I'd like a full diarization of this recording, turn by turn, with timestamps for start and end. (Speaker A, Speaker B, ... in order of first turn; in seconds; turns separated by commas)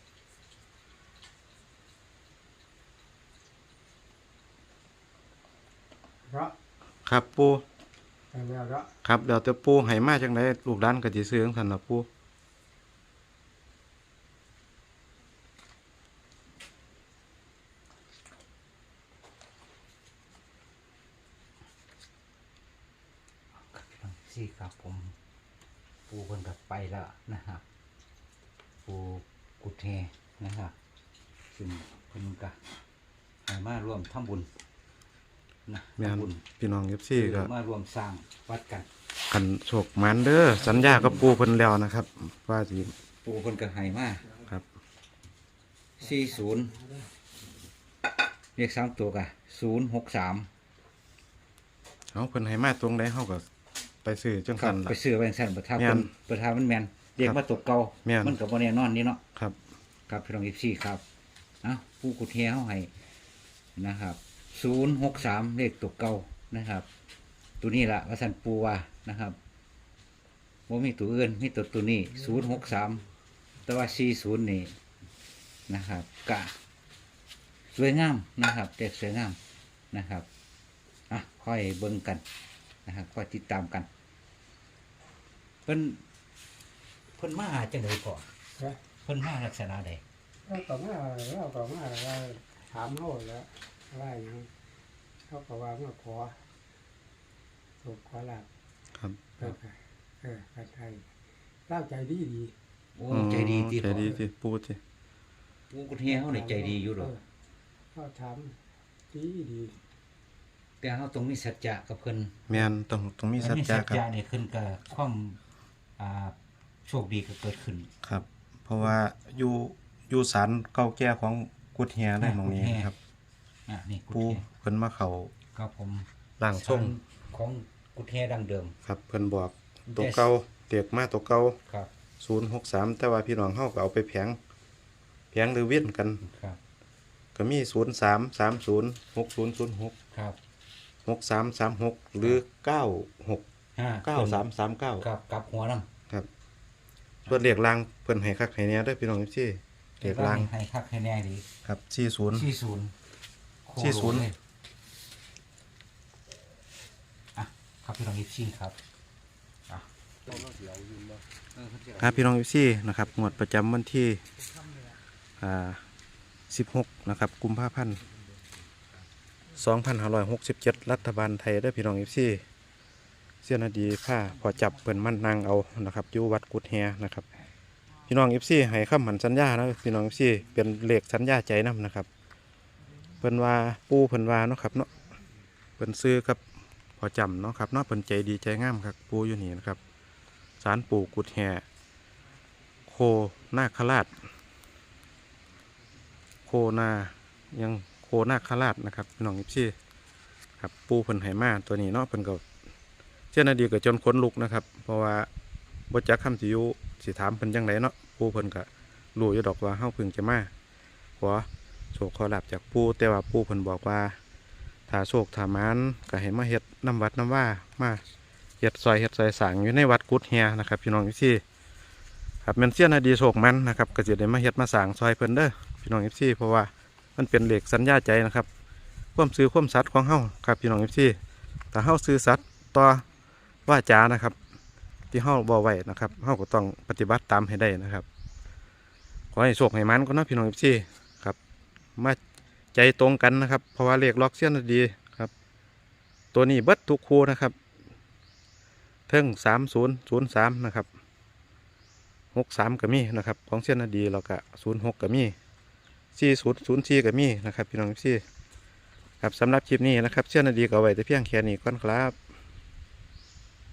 Speaker A: 6.3-6.5, Speaker B: 7.0-7.6, Speaker A: 8.3-8.9, Speaker B: 9.0-12.1, Speaker C: 23.7-25.1, Speaker C: 26.1-27.6, Speaker C: 28.8-30.7, Speaker C: 31.5-32.6, Speaker C: 33.4-34.5, Speaker C: 35.7-36.4, Speaker B: 36.0-37.5, Speaker C: 37.1-38.9, Speaker B: 39.3-42.9, Speaker C: 40.6-41.3, Speaker C: 43.2-44.3, Speaker C: 46.0-46.7, Speaker A: 46.0-47.1, Speaker C: 48.5-50.5, Speaker B: 52.1-53.4, Speaker B: 54.0-55.0, Speaker C: 54.6-59.2, Speaker B: 55.8-56.1, Speaker B: 58.0-58.4, Speaker C: 60.1-61.0, Speaker C: 61.6-62.9, Speaker C: 63.8-66.9, Speaker C: 67.6-69.4, Speaker C: 70.7-73.0, Speaker C: 73.6-74.8, Speaker C: 75.7-76.5, Speaker C: 77.7-79.4, Speaker C: 79.9-80.3, Speaker C: 81.1-82.2, Speaker C: 82.8-83.9, Speaker C: 85.7-86.0, Speaker C: 87.2-88.3, Speaker C: 89.0-90.0, Speaker A: 90.5-94.5, Speaker A: 95.2-96.4, Speaker A: 97.8-98.5, Speaker B: 99.0-99.2, Speaker A: 99.4-101.1, Speaker A: 101.7-102.5, Speaker C: 103.0-104.2, Speaker B: 103.1-104.8, Speaker C: 105.7-107.1, Speaker A: 106.1-107.2, Speaker A: 107.9-108.6, Speaker A: 109.1-109.8, Speaker C: 110.8-112.4, Speaker B: 112.5-114.0, Speaker C: 113.4-115.4, Speaker C: 116.0-117.9, Speaker B: 118.0-122.9, Speaker C: 122.2-122.9, Speaker C: 123.7-124.4, Speaker B: 124.1-125.3, Speaker C: 125.5-128.8, Speaker B: 126.4-127.0, Speaker B: 128.8-131.6, Speaker C: 129.9-130.3, Speaker B: 132.2-134.4, Speaker B: 135.3-136.2, Speaker C: 136.2-136.6, Speaker B: 137.3-139.9, Speaker C: 140.1-140.4, Speaker B: 141.0-143.4, Speaker C: 143.8-144.4, Speaker B: 144.0-145.1, Speaker C: 145.0-145.9, Speaker B: 147.3-150.5, Speaker C: 150.0-151.5, Speaker B: 151.6-152.5, Speaker C: 152.3-152.9, Speaker C: 153.7-154.3, Speaker B: 153.8-154.3, Speaker C: 157.3-158.8, Speaker C: 161.5-162.3, Speaker B: 162.0-164.2, Speaker B: 165.4-165.8, Speaker B: 166.5-168.0, Speaker B: 169.5-172.4, Speaker B: 173.4-177.3, Speaker B: 178.0-182.1, Speaker B: 183.2-184.9, Speaker B: 185.8-186.4, Speaker B: 187.0-189.8, Speaker B: 190.6-191.6, Speaker B: 192.9-194.2, Speaker B: 196.4-199.7, Speaker B: 200.6-202.4, Speaker B: 203.3-205.3, Speaker B: 205.9-210.5, Speaker B: 211.2-214.2, Speaker B: 214.9-218.0, Speaker B: 218.6-221.4, Speaker B: 222.4-228.5, Speaker B: 229.1-231.2, Speaker B: 231.7-233.1, Speaker B: 233.7-234.4, Speaker B: 235.1-238.1, Speaker B: 239.3-241.4, Speaker B: 242.7-245.3, Speaker B: 246.3-247.5, Speaker B: 249.1-250.9, Speaker B: 252.3-255.3, Speaker B: 256.1-258.2, Speaker B: 259.2-262.2